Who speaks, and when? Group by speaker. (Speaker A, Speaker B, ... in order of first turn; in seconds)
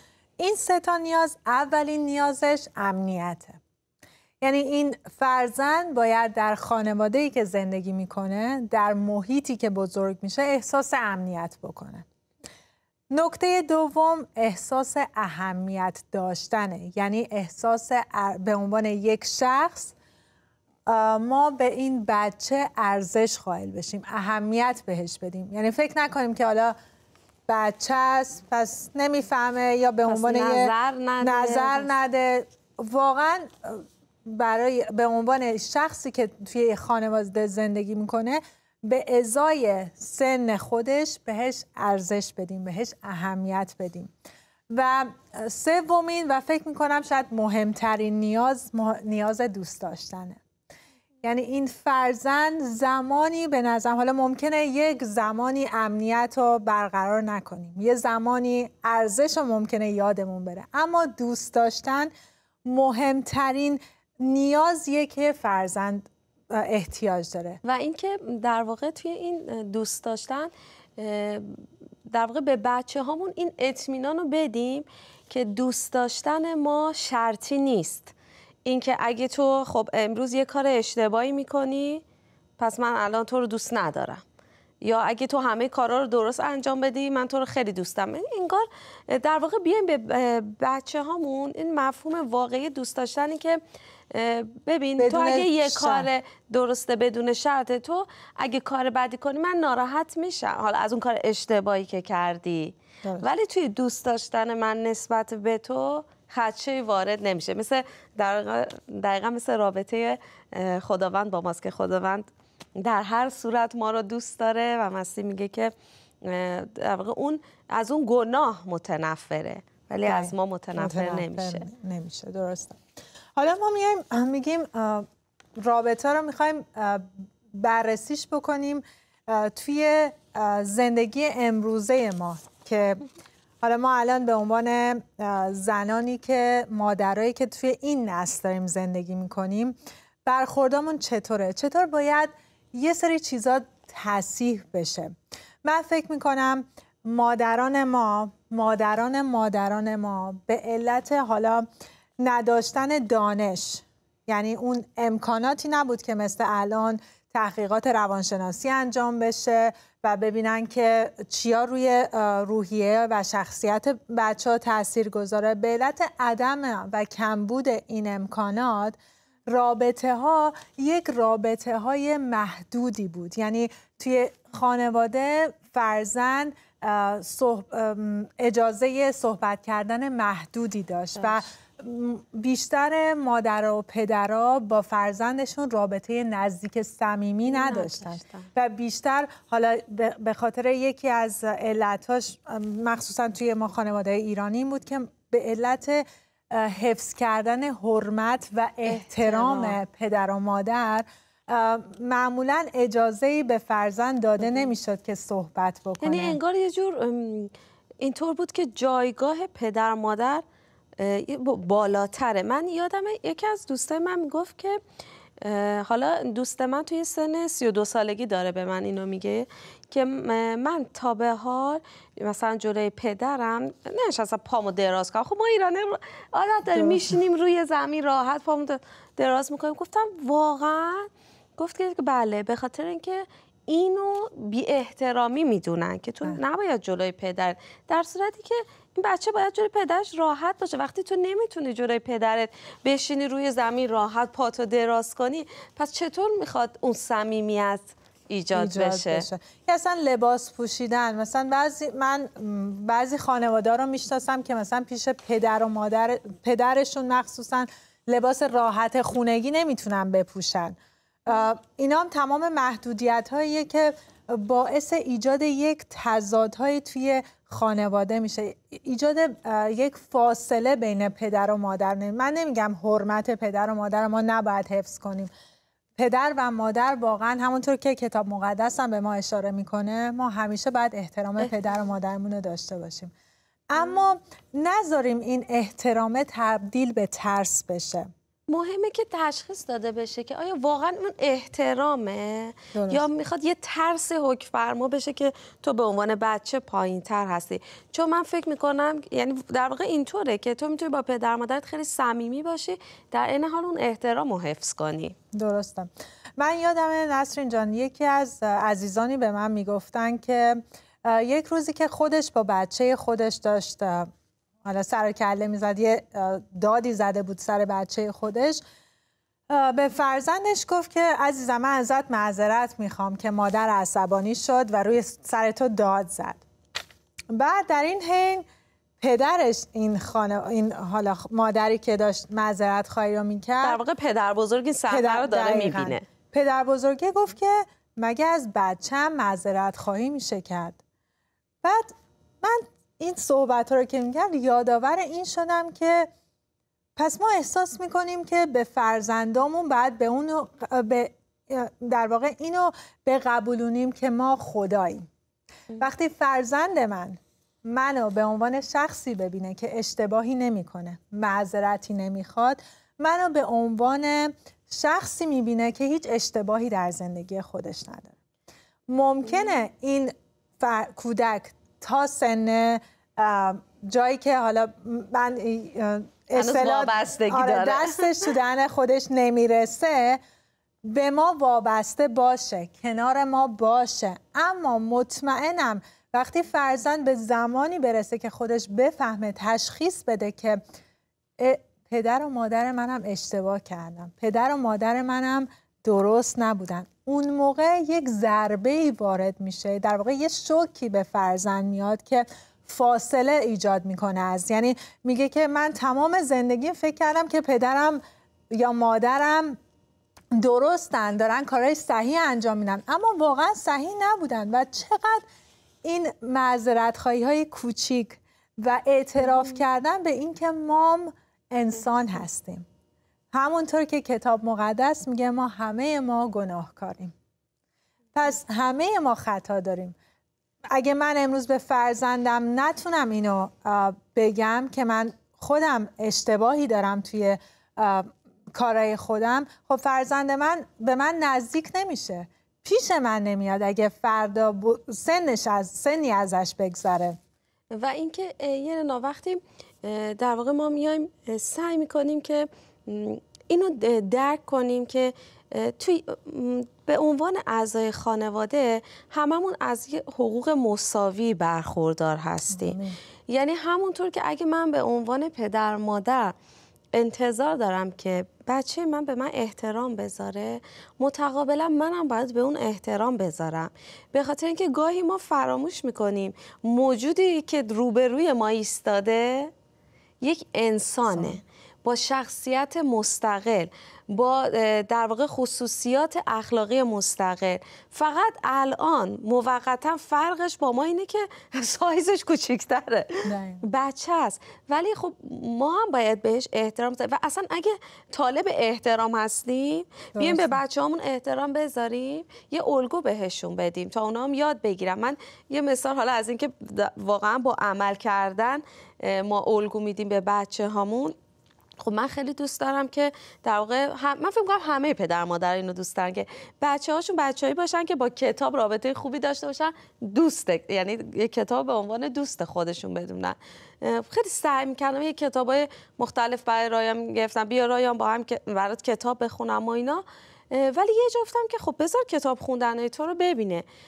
Speaker A: 0.4-3.6, 4.4-12.0, 13.1-19.9, 20.9-26.7, 27.5-44.1, 44.7-50.4, 51.2-62.1, 62.6-67.6, 95.0-96.1, 120.0-122.8, 123.4-125.0, 125.6-133.0, 133.6-151.7, 152.2-206.4, 226.7-227.1, 248.5-260.7, 261.2-275.3, 276.0-283.1, 283.7-288.1, 292.7-293.0, 305.3-314.1, 314.6-318.6, 319.5-326.4, 327.3-328.4, 329.0-333.8, 334.9-340.8, 341.6-341.9, 342.4-346.1, 347.0-355.1, 355.8-368.1, 368.9-380.2, 380.8-390.6, 391.4-408.0, 408.5-409.6, 410.3-415.2, 415.8-422.6, 423.3-427.1, 428.1-429.9, 430.7-447.2, 462.5-462.9, 493.2-493.6, 500.1-500.6
Speaker B: 30.1-31.9, 67.6-78.1, 78.6-82.0, 82.6-84.2, 84.8-93.6, 94.1-112.2, 112.8-121.7, 187.5-188.5, 198.8-199.8, 206.0-210.4, 211.0-214.8, 215.4-249.3, 288.5-305.1, 333.6-336.0, 376.3-378.1, 447.7-466.3, 466.9-479.5, 480.2-511.1, 511.8-533.6